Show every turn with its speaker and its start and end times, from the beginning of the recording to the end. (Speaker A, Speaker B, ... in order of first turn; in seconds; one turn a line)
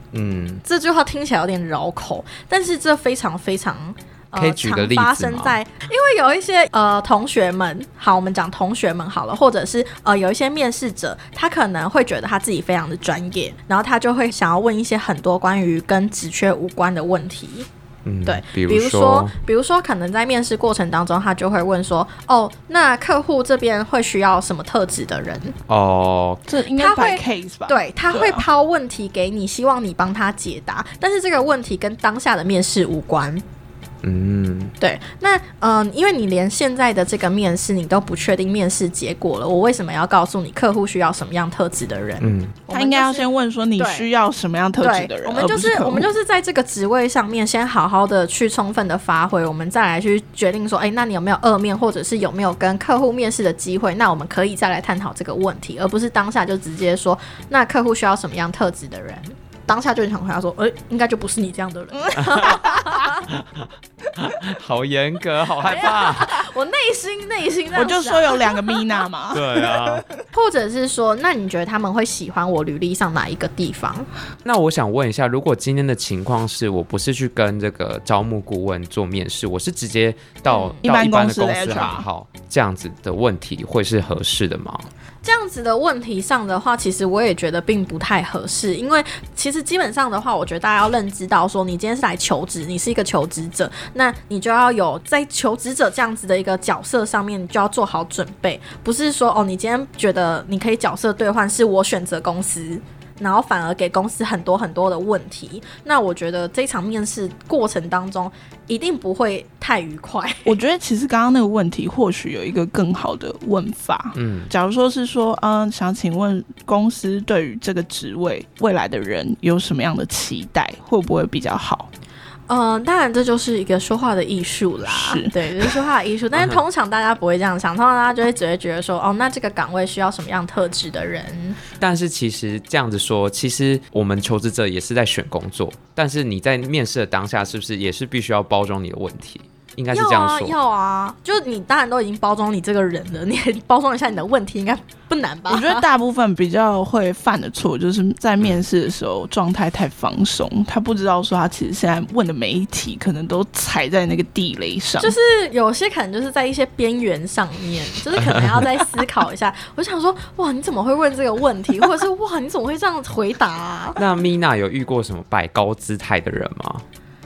Speaker A: 0.1-0.6
Speaker B: 0.6-17.7
Speaker A: 4.4-5.6
Speaker A: 18.1-19.3
Speaker B: 18.2-25.6
Speaker A: 25.7-26.4
Speaker C: 26.5-28.4
Speaker B: 26.8-33.4
Speaker A: 34.0-34.8
Speaker B: 34.8-43.2
Speaker A: 42.2-42.6
Speaker C: 42.7-46.1
Speaker B: 43.8-44.1
Speaker B: 44.8-63.3
Speaker A: 62.2-62.6
Speaker C: 62.2-62.8
Speaker A: 63.3-66.4
Speaker B: 65.6-68.8
Speaker C: 67.7-70.0
Speaker A: 69.3-70.1
Speaker B: 70.3-74.1
Speaker A: 74.4-84.9
Speaker B: 80.5-80.8
Speaker C: 80.8-82.1
Speaker B: 85.2-110.6
Speaker C: 110.5-121.9
Speaker A: 114.2-114.5
Speaker B: 122.5-131.6
Speaker C: 124.9-125.8
Speaker A: 126.3-126.6
Speaker A: 131.8-140.6
Speaker B: 139.9-145.8
Speaker C: 145.5-155.2
Speaker B: 155.0-164.0
Speaker A: 158.2-158.5
Speaker A: 164.0-166.8